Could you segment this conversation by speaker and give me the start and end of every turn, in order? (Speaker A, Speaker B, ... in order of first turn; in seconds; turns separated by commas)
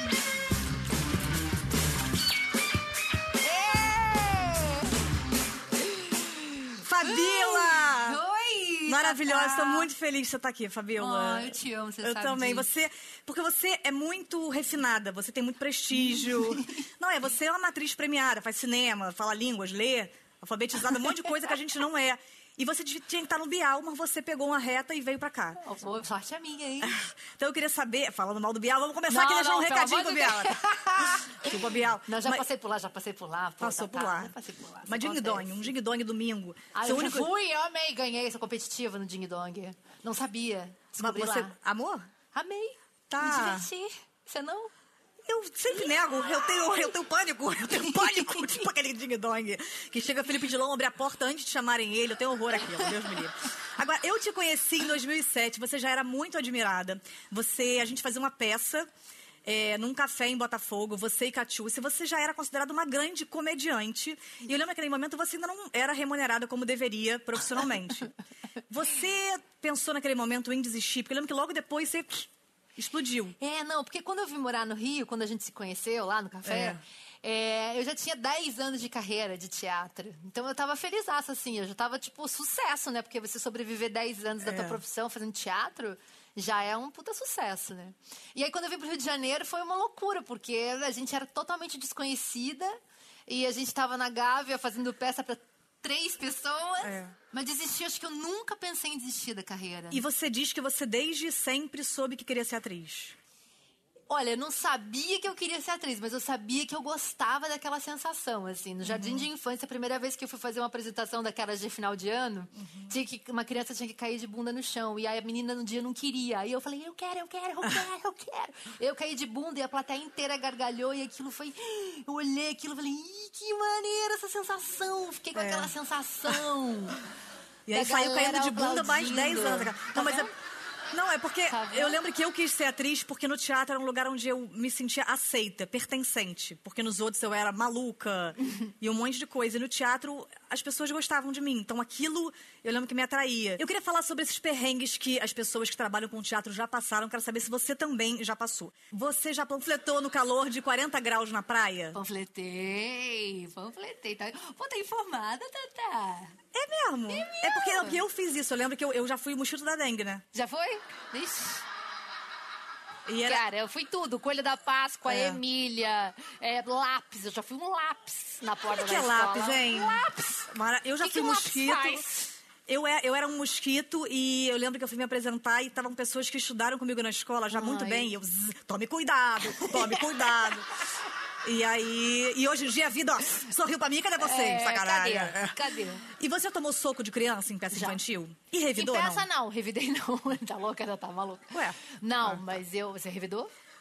Speaker A: 3.5-4.7, Speaker A: 6.2-9.9, Speaker B: 6.8-8.2, Speaker B: 8.9-25.6, Speaker A: 11.0-12.7, Speaker A: 16.0-16.8, Speaker A: 25.6-27.0, Speaker B: 26.8-32.5, Speaker A: 29.1-35.7, Speaker B: 33.6-34.3, Speaker B: 34.9-37.3, Speaker A: 36.7-41.5, Speaker B: 41.0-42.1, Speaker A: 42.3-44.7, Speaker B: 43.1-43.7, Speaker B: 45.3-58.9, Speaker A: 47.8-48.7, Speaker B: 59.5-68.1, Speaker B: 68.7-73.3, Speaker A: 73.4-100.0, Speaker B: 76.5-76.8, Speaker B: 84.4-84.8, Speaker B: 96.8-97.2, Speaker B: 99.9-103.2, Speaker A: 104.1-127.1, Speaker B: 108.8-109.3, Speaker B: 112.6-113.0, Speaker B: 125.3-125.7, Speaker B: 127.7-130.3, Speaker A: 127.7-130.3, Speaker B: 130.9-152.0, Speaker A: 131.5-132.0, Speaker A: 151.9-156.3, Speaker B: 156.5-160.2, Speaker A: 157.1-158.0, Speaker A: 160.3-161.7, Speaker B: 163.1-163.5, Speaker A: 163.2-170.5, Speaker B: 165.1-165.4, Speaker B: 168.7-172.0, Speaker A: 171.0-172.3, Speaker B: 172.7-180.8, Speaker A: 177.5-178.1, Speaker A: 179.6-180.4, Speaker B: 181.4-189.3, Speaker A: 184.2-186.1, Speaker A: 187.7-188.0, Speaker A: 188.8-193.5, Speaker B: 191.5-192.4